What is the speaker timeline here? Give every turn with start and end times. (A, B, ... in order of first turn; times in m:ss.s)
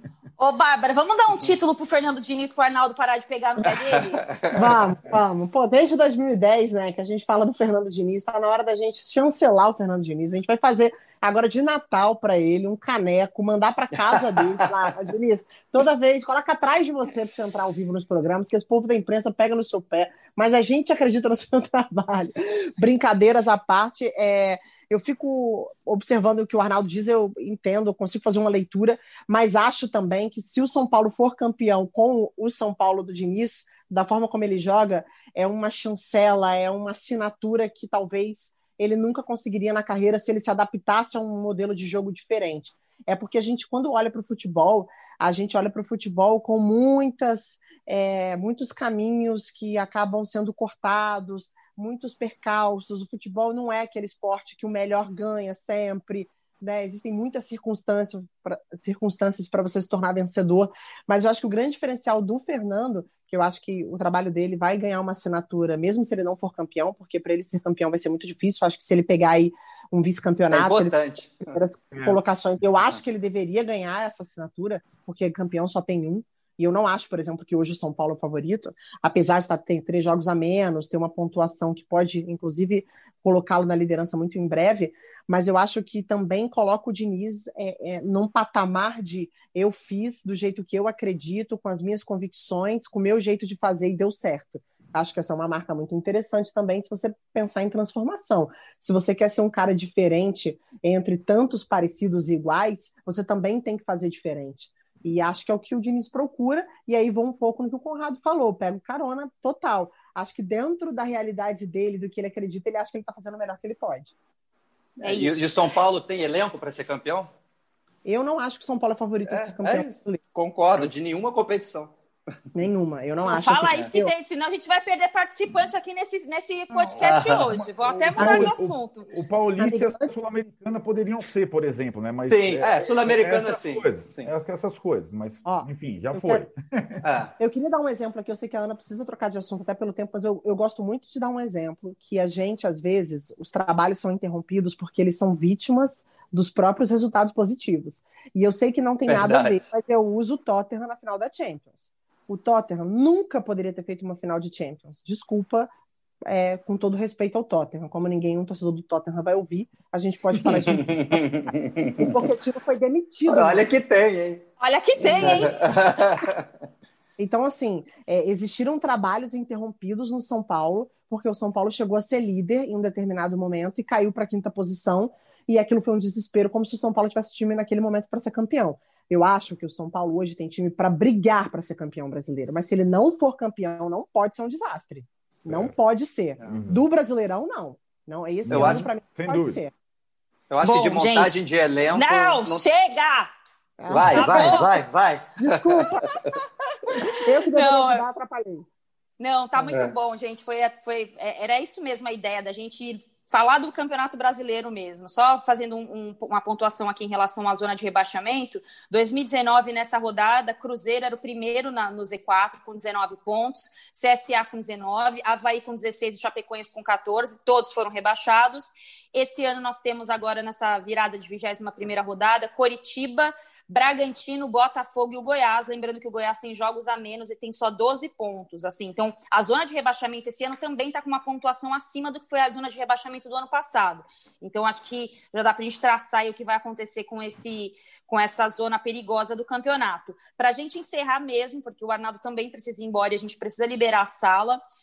0:00.4-0:04.2 A
0:03.9-0:04.8 B
0:04.5-1:54.1 C
0:14.0-0:14.9 B
1:10.5-1:12.1 B
1:55.0-1:57.3 B
1:55.0-1:55.5 A
1:58.0-2:00.2 C
1:59.2-2:01.9 B
2:02.5-2:04.1 C
2:03.2-2:09.0 A
2:07.0-2:07.6 B
2:07.6-2:17.0 D
2:08.2-2:08.5 C
2:09.6-2:10.1 C
2:12.3-2:14.3 B
2:15.4-2:16.4 C
2:17.0-2:17.3 B
2:17.4-2:35.7 C
2:29.1-2:29.6 B
2:36.2-2:43.7 C
2:40.4-2:42.1 B
2:43.2-2:44.4 B
2:44.6-2:45.6 A
2:45.0-2:46.5 B
2:47.2-3:09.7 C
3:05.4-3:05.7 D
3:06.5-3:06.8 D
3:08.4-3:09.6 D
3:08.5-3:08.9 B
3:10.5-3:12.6 B
3:10.6-3:11.4 A
3:11.9-3:13.3 A
3:13.8-3:14.6 C
3:13.9-3:16.3 B
3:14.0-3:14.8 A
3:15.4-3:16.2 C
3:16.8-3:18.0 A
3:17.0-3:18.6 C
3:19.2-4:04.6 A
3:19.6-3:19.9 B